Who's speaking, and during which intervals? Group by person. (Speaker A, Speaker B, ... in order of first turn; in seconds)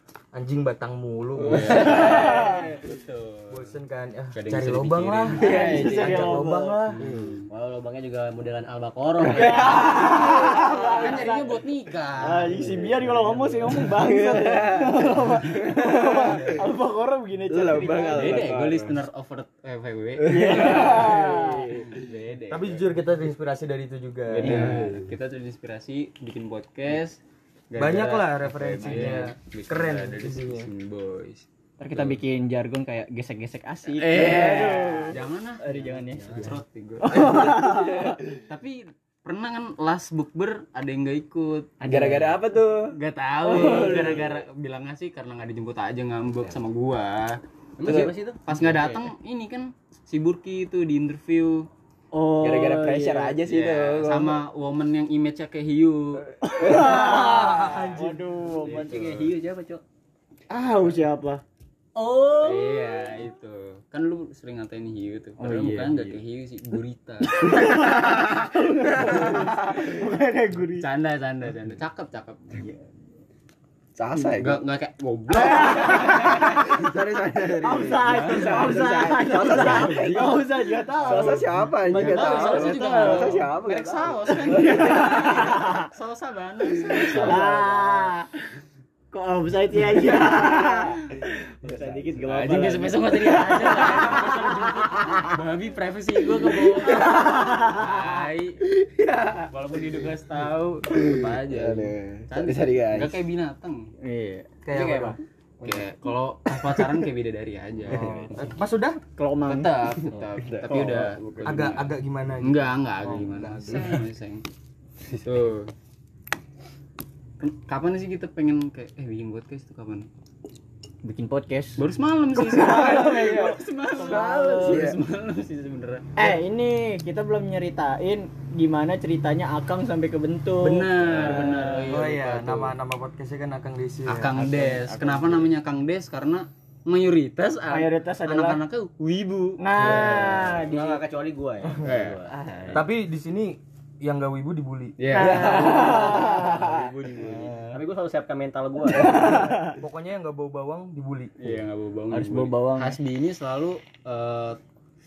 Speaker A: 0.3-2.4, 3.5-7.0, 22.5-24.8, 27.8-30.7, 56.6-58.5, 104.7-105.2, 108.0-109.0, 111.4-114.0, 131.2-134.5, 139.8-140.5, 142.7-145.5, 147.2-147.8, 149.7-151.6
Speaker B: 1.4-3.8, 4.3-6.2, 6.9-7.5, 9.8-10.1, 11.0-12.8, 18.1-21.1, 21.8-22.9, 24.3-27.2, 27.7-32.2, 33.9-37.5, 38.3-41.7, 42.9-47.4, 48.5-51.7, 53.5-56.3, 58.7-59.3, 62.4-67.9, 70.8-72.6, 74.2-76.7, 78.1-78.7, 81.1-81.4, 82.0-87.9, 90.2-90.8, 92.2-98.6, 99.5-103.9, 104.7-108.2, 109.5-114.4, 115.1-115.7, 117.4-120.1, 121.8-126.1, 130.6-132.7, 134.1-140.5, 141.8-142.7, 145.0-147.6, 151.4-154.6
Speaker C: 1.7-2.6, 5.4-6.9, 9.2-11.6, 12.2-18.4, 20.3-22.0, 24.4-24.9, 31.8-38.1, 41.8-42.4, 43.4-44.2, 52.1-53.4, 56.4-59.1, 60.5-61.4, 62.0-63.1, 65.4-66.2, 67.2-70.9, 75.3-76.5, 77.6-83.5, 84.5-85.9, 87.1-88.5, 89.1-95.4, 96.5-98.0, 104.0-104.5, 107.9-108.3, 109.2-110.0, 110.7-111.2, 121.0-121.8, 122.4-124.8, 126.2-132.0, 134.4-135.5, 137.7-138.6, 139.6-141.0, 142.4-142.8, 145.1-146.6, 149.1-149.8, 152.1-153.0
Speaker D: 5.4-6.0, 9.6-10.9, 13.9-16.6, 17.5-19.0, 20.3-22.0, 24.5-25.0, 34.1-35.1, 37.1-38.3, 41.9-42.9, 47.8-48.1, 52.4-54.4, 74.0-74.6, 75.9-80.5, 81.0-85.3, 86.9-87.2, 97.1-97.4, 98.7-99.5, 100.9-103.2, 107.9-108.3, 110.4-110.8, 123.9-125.0
Speaker E: 7.5-11.0, 36.2-36.5, 47.8-49.0, 58.6-59.8, 140.7-142.8, 147.7-149.3